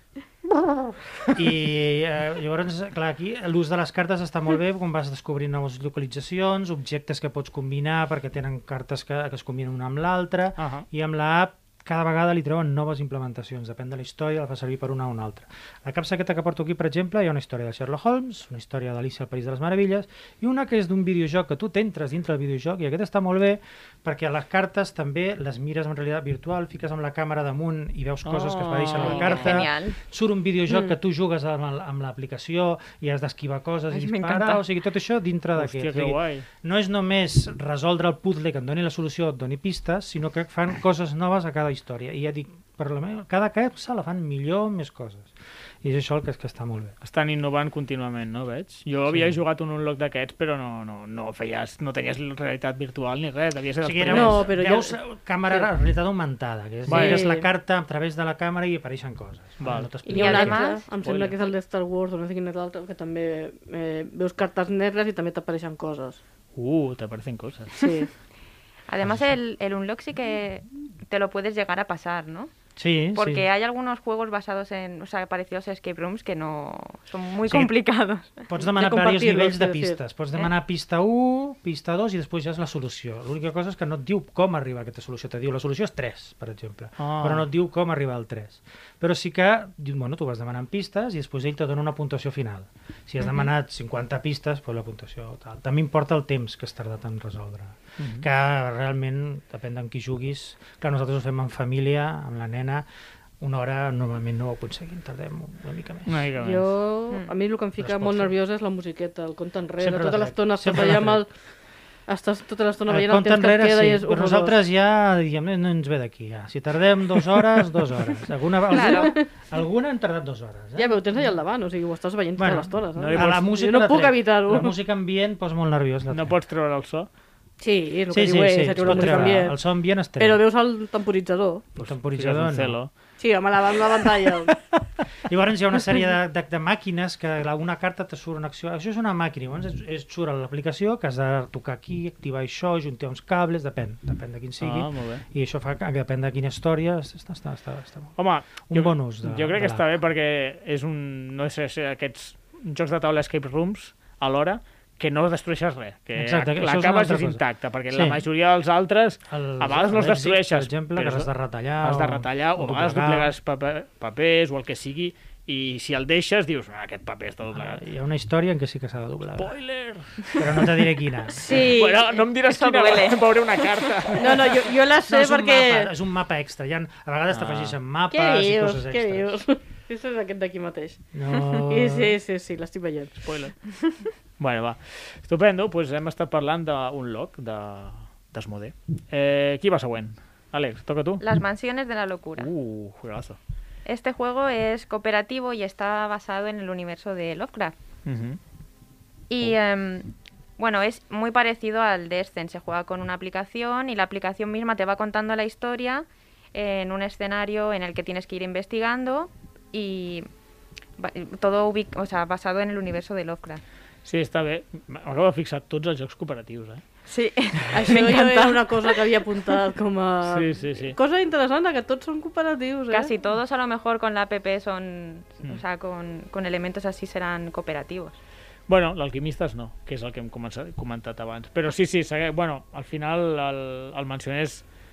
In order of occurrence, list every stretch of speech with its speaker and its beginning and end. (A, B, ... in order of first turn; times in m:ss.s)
0:00.6-0:01.4 A
0:01.3-0:47.0 B
0:10.6-0:10.8 A
0:28.2-0:29.7 A
0:29.0-0:30.0 C
0:33.9-0:34.6 C
0:35.6-0:36.4 A
0:47.0-0:54.5 A
0:49.1-0:49.4 B
0:53.8-1:00.6 B
0:54.1-0:55.0 D
0:56.9-0:57.2 A
0:56.9-0:57.5 D
0:59.6-0:59.9 A
1:00.1-1:06.2 D
1:00.1-1:00.9 C
1:01.0-1:01.4 A
1:06.6-1:07.8 A
1:07.8-1:08.1 D
1:08.9-1:12.5 C
1:12.8-1:13.5 B
1:13.2-1:18.3 C
1:17.5-1:17.7 B
1:18.5-1:42.9 B
1:18.8-1:20.0 D
1:27.0-1:27.5 A
1:38.0-1:38.3 A
1:43.4-1:46.3 B
1:46.1-1:46.7 A
1:46.4-1:51.3 D
1:47.8-1:48.3 B
1:49.8-1:51.2 B
1:52.1-1:54.6 D
1:52.9-2:01.0 B
1:58.7-1:59.1 C
1:58.9-1:59.2 D
2:00.8-2:04.7 D
2:02.4-2:06.4 B
2:03.0-2:03.5 A
2:06.1-2:07.1 A
2:07.6-2:09.6 D
2:08.1-2:10.4 B
2:08.9-2:09.3 A
2:10.2-2:11.6 D
2:11.8-2:12.8 B
2:11.8-2:12.9 A
2:13.2-2:14.5 D
2:15.3-2:29.9 B
2:24.6-2:25.2 A
2:28.2-2:41.3 A
2:36.2-2:38.2 B
2:39.3-2:43.3 B
2:41.8-2:47.8 A
2:47.5-2:49.6 B
2:49.4-2:50.8 A
2:50.4-2:51.5 B
2:51.3-2:52.0 D
2:51.4-2:54.6 A
2:51.5-2:53.9 C
2:54.2-2:55.9 D
2:55.1-2:59.4 B
2:57.3-2:57.8 A
2:58.1-3:03.2 D
3:01.1-3:02.2 B
3:03.2-3:03.6 A
3:04.4-3:11.2 A
3:11.2-3:12.5 C
3:12.4-3:13.4 A
3:13.8-3:17.8 C
3:18.0-3:18.4 A
3:19.3-3:30.3 C
3:31.0-3:33.6 C
3:34.0-3:36.8 A
3:37.1-3:39.0 C
3:37.7-3:43.1 D
3:40.3-3:41.0 A
3:42.9-3:48.2 C
3:48.7-3:54.6 A